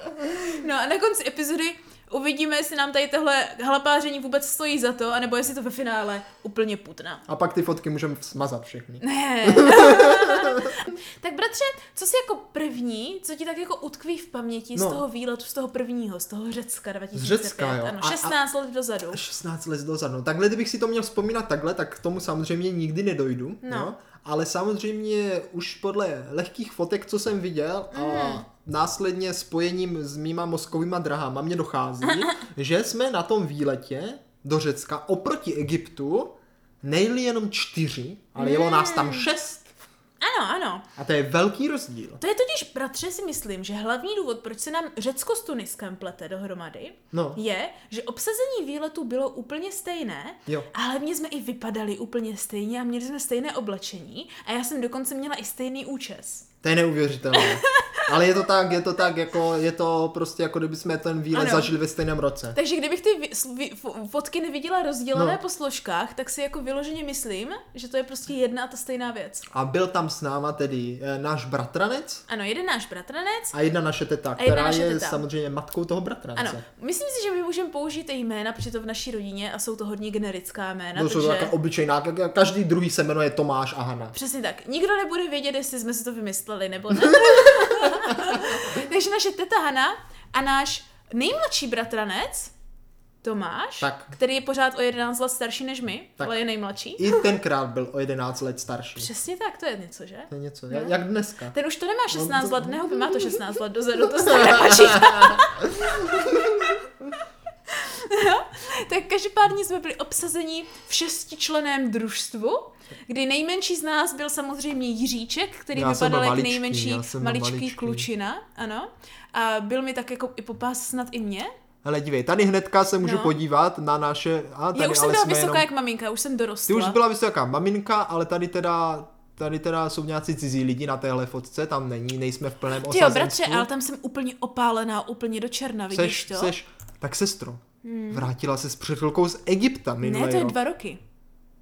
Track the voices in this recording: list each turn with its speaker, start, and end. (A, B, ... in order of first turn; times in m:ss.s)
0:00.3-0:07.2 A
0:07.3-0:10.9 B
0:09.0-0:19.2 A
0:14.7-0:15.0 B
0:17.1-0:18.4 B
0:19.1-0:39.7 B
0:23.6-0:23.9 A
0:27.9-0:28.4 A
0:32.0-0:32.3 A
0:38.4-0:39.3 A
0:40.2-0:40.8 A
0:41.0-0:42.2 B
0:42.2-0:56.5 A
0:47.1-0:47.4 B
0:56.6-1:02.6 B
0:57.3-0:58.1 A
1:01.3-1:01.7 A
1:02.5-1:09.4 A
1:05.1-1:05.4 B
1:09.5-1:12.2 B
1:12.3-1:13.5 A
1:13.5-1:16.6 B
1:14.4-1:15.2 A
1:16.4-1:21.5 A
1:20.9-1:24.1 B
1:24.1-1:32.5 A
1:27.1-1:28.6 B
1:33.2-1:37.2 A
1:33.8-1:34.1 B
1:37.0-1:39.1 B
1:39.0-1:40.9 A
1:40.3-1:41.5 B
1:41.5-1:46.5 A
1:42.1-1:43.4 B
1:44.2-1:46.8 B
1:47.7-2:01.5 A
1:55.7-1:58.1 B
2:01.8-2:05.7 B
2:03.0-2:03.3 A
2:04.7-2:07.0 A
2:06.7-2:13.7 B
2:12.8-2:16.5 A
2:15.9-2:20.6 B
2:17.8-2:18.2 A
2:20.0-2:21.0 A